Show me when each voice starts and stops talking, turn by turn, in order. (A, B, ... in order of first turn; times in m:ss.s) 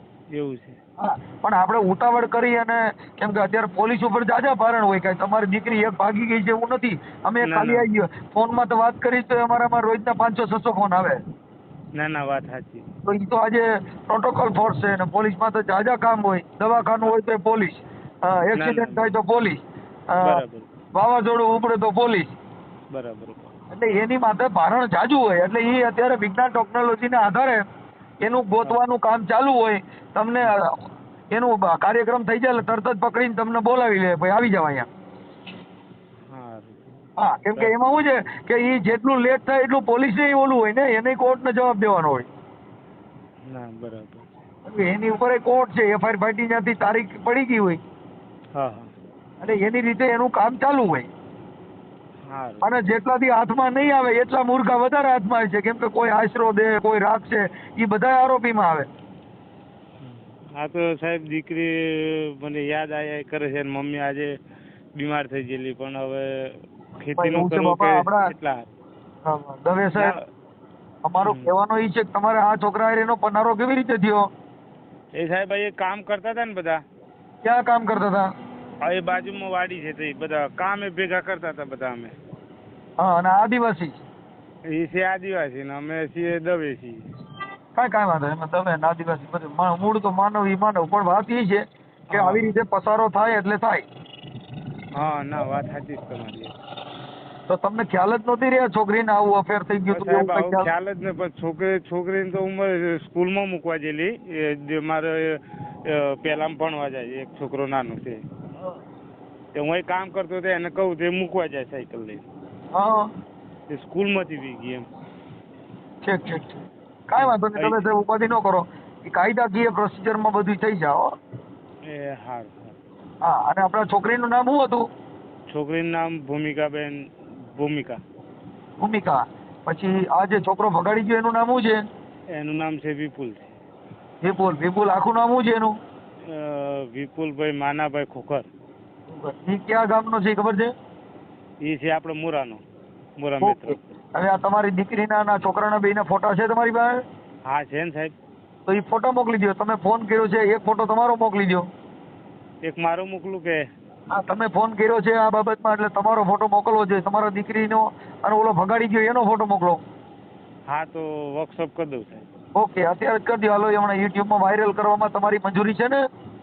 0:00.3-0:00.8 A
0:01.0-0:11.2 B
0:07.4-0:07.8 A
0:12.0-0:12.9 A
0:13.0-0:20.4 B
0:18.5-0:19.2 A
0:20.2-0:20.7 A
0:20.9-0:22.3 B
0:22.9-0:23.6 A
0:23.7-0:27.6 B
0:28.2-0:30.7 B
0:31.3-0:34.9 B
0:36.2-0:37.0 A
0:37.2-0:42.3 B
0:43.4-0:44.3 A
0:44.6-0:47.8 B
0:48.6-0:48.9 A
0:49.4-0:51.1 B
0:52.2-0:52.8 A
0:52.6-0:58.9 B
1:00.0-1:04.3 A
1:04.9-1:08.7 A
1:07.2-1:08.3 B
1:09.2-1:10.1 B
1:10.0-1:10.2 A
1:11.0-1:14.3 B
1:11.2-1:11.5 A
1:15.1-1:16.8 A
1:17.4-1:18.3 B
1:18.8-1:22.1 A
1:23.0-1:24.0 B
1:24.7-1:27.1 A
1:27.7-1:33.8 B
1:32.1-1:32.5 A
1:34.9-1:36.5 A
1:37.5-1:40.7 B
1:39.9-1:48.2 A
1:49.5-1:52.2 A
1:52.7-1:53.1 B
1:53.7-1:54.9 A
1:56.0-1:56.5 B
1:57.1-2:01.1 B
1:57.2-1:57.9 A
2:01.8-2:02.8 A
2:03.2-2:04.8 B
2:05.5-2:08.0 A
2:08.8-2:11.8 B
2:12.4-2:13.6 A
2:14.2-2:15.7 B
2:16.2-2:18.5 A
2:19.1-2:20.7 B
2:21.6-2:22.6 A
2:23.2-2:23.9 A
2:23.4-2:27.0 B
2:27.4-2:28.1 A
2:28.7-2:31.6 B
2:32.6-2:33.6 A
2:34.1-2:39.8 B
2:40.7-2:42.2 A
2:42.5-2:46.0 B